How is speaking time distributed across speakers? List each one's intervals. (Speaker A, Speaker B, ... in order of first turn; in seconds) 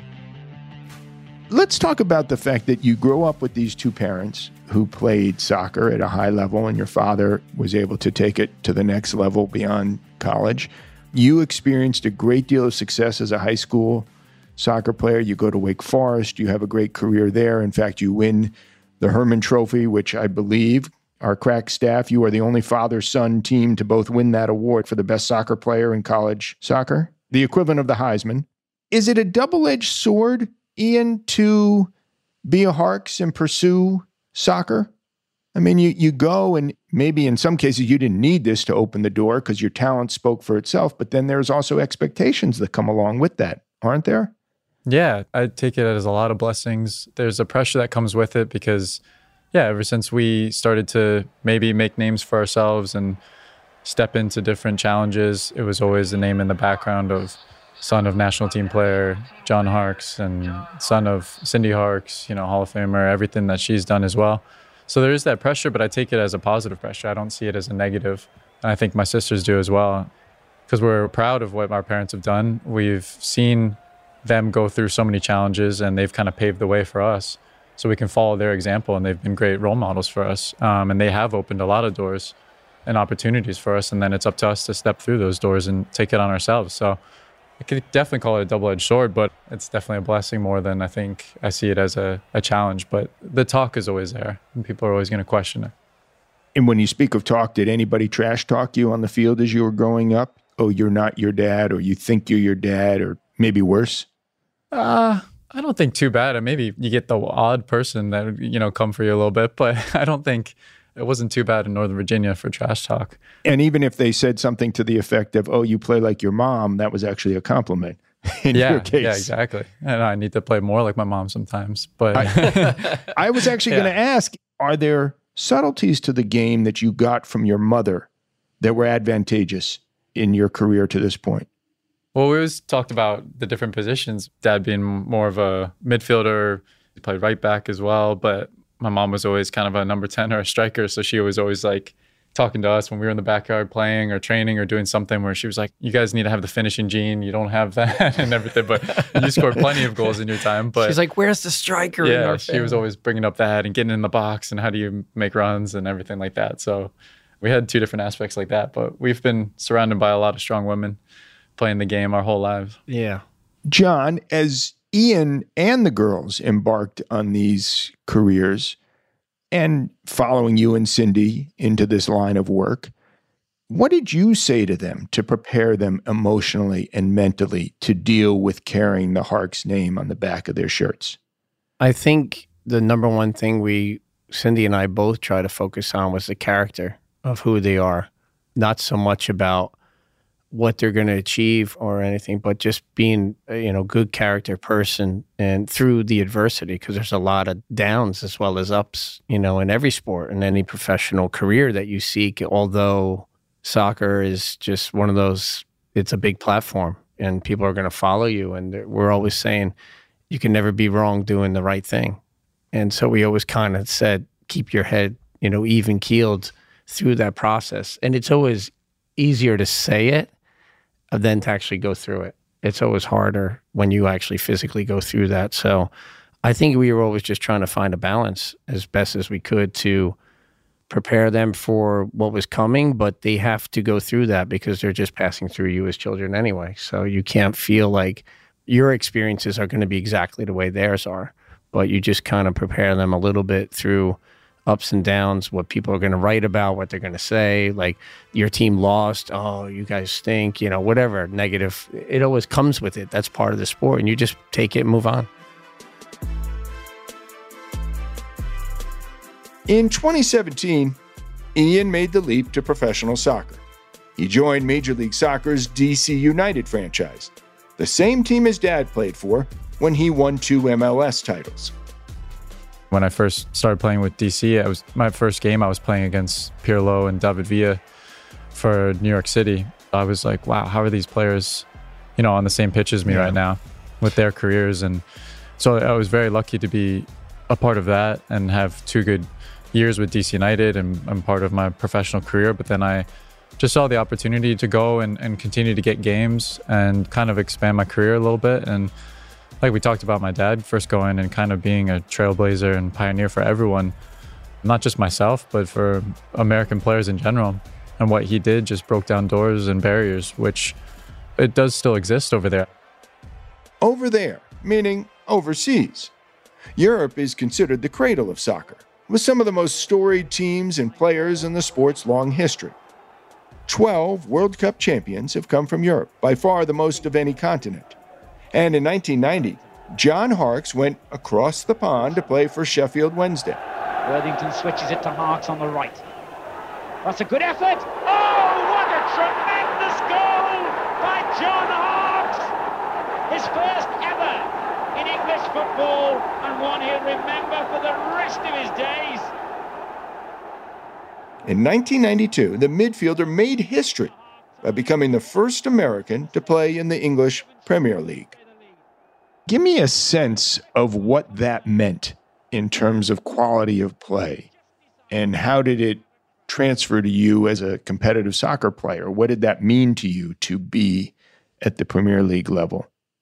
Speaker A: 1.5-31.9, 32.5-34.9, 35.5-44.3, 96.5-104.1, 113.4-119.3, 122.1-128.1, 128.6-131.5, 163.7-168.8, 169.5-172.9, 173.7-181.2, 259.7-261.0, 261.6-263.6, 264.2-271.7, 313.8-316.1, 316.8-322.8, 323.7-328.0, 328.5-333.6, 351.4-358.3, 359.5-364.5, 365.1-372.9
Speaker B: 44.9-49.0, 49.5-53.2, 53.9-70.1, 70.7-82.3, 82.9-87.0, 87.6-95.7, 104.7-113.2, 118.5-122.9, 132.2-151.0, 152.0-161.0, 161.6-162.8, 272.9-277.8, 278.5-281.7, 282.2-285.0, 285.6-293.1, 293.6-298.9, 299.6-303.9, 304.6-310.8, 311.4-312.7
Speaker C: 122.6-123.0, 149.1-149.7, 150.8-152.8, 162.9-163.2, 181.8-189.8, 190.5-209.7, 210.3-212.2, 212.7-220.3, 221.1-225.9, 226.4-230.2, 230.9-255.3, 283.1-283.4
Speaker D: 334.1-336.0, 337.0-342.5, 343.3-349.3